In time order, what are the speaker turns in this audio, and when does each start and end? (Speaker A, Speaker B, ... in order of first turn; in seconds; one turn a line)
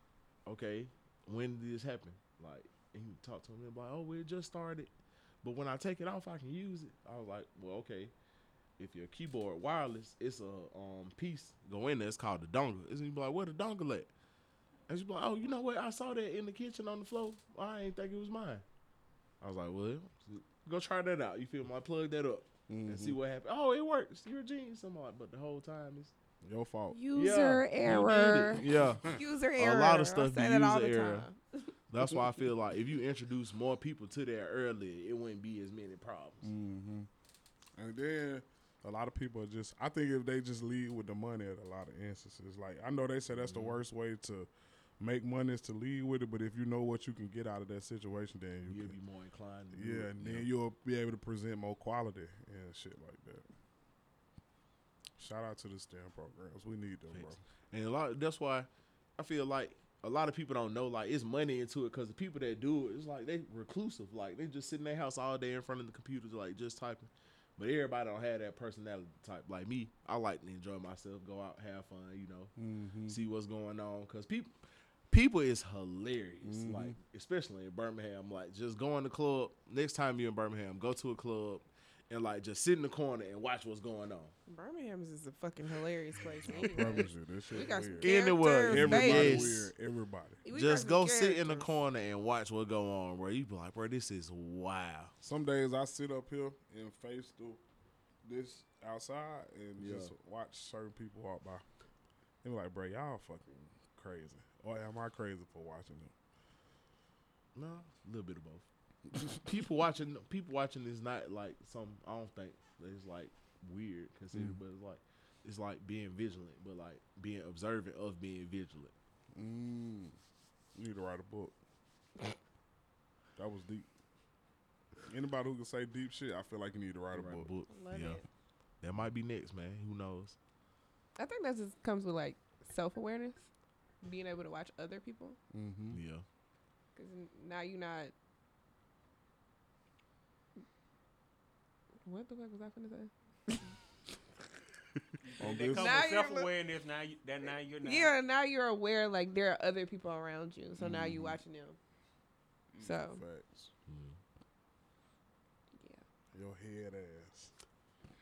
Speaker A: 0.5-4.9
Speaker A: 5.4-8.1
Speaker A: 8.8-14.1
Speaker A: 14.9-18.6
Speaker A: 19.4-26.1
Speaker B: 22.7-23.2
Speaker B: 26.4-27.0
Speaker C: 26.9-31.7
Speaker A: 27.1-31.3
Speaker A: 31.9-36.5
Speaker B: 36.4-37.1
Speaker B: 37.8-44.5
Speaker A: 43.3-43.8
Speaker B: 45.0-49.0
Speaker A: 48.6-50.5
Speaker B: 49.7-53.5
Speaker B: 55.2-57.4
Speaker A: 57.1-72.5
Speaker B: 72.6-73.2
Speaker A: 73.1-74.5
Speaker A: 75.1-84.3
Speaker B: 76.4-77.0
Speaker C: 84.5-89.6
Speaker B: 86.5-88.1
Speaker A: 86.6-86.9
Speaker A: 88.0-89.7
Speaker B: 88.6-90.4
Speaker C: 90.5-91.7
Speaker A: 90.5-95.1
Speaker B: 95.2-97.6
Speaker B: 98.2-101.6
Speaker A: 99.8-100.1
Speaker B: 102.4-106.1
Speaker A: 107.5-108.7
Speaker B: 109.1-109.6
Speaker A: 109.4-118.9
Speaker B: 114.3-114.6
Speaker B: 119.3-120.2
Speaker B: 120.8-121.5
Speaker B: 123.4-123.9
Speaker B: 125.1-127.5
Speaker A: 127.1-128.2
Speaker C: 127.7-128.3
Speaker A: 128.8-130.4
Speaker C: 131.2-133.5
Speaker C: 134.0-135.4
Speaker B: 135.5-136.0
Speaker A: 135.9-136.2
Speaker C: 137.0-138.1
Speaker C: 142.0-143.6
Speaker D: 145.2-148.1
Speaker B: 145.4-146.0
Speaker C: 145.7-146.5
Speaker C: 147.8-151.8
Speaker A: 150.8-151.4
Speaker C: 152.8-153.2
Speaker B: 153.0-153.7
Speaker A: 153.9-154.2
Speaker B: 156.3-157.5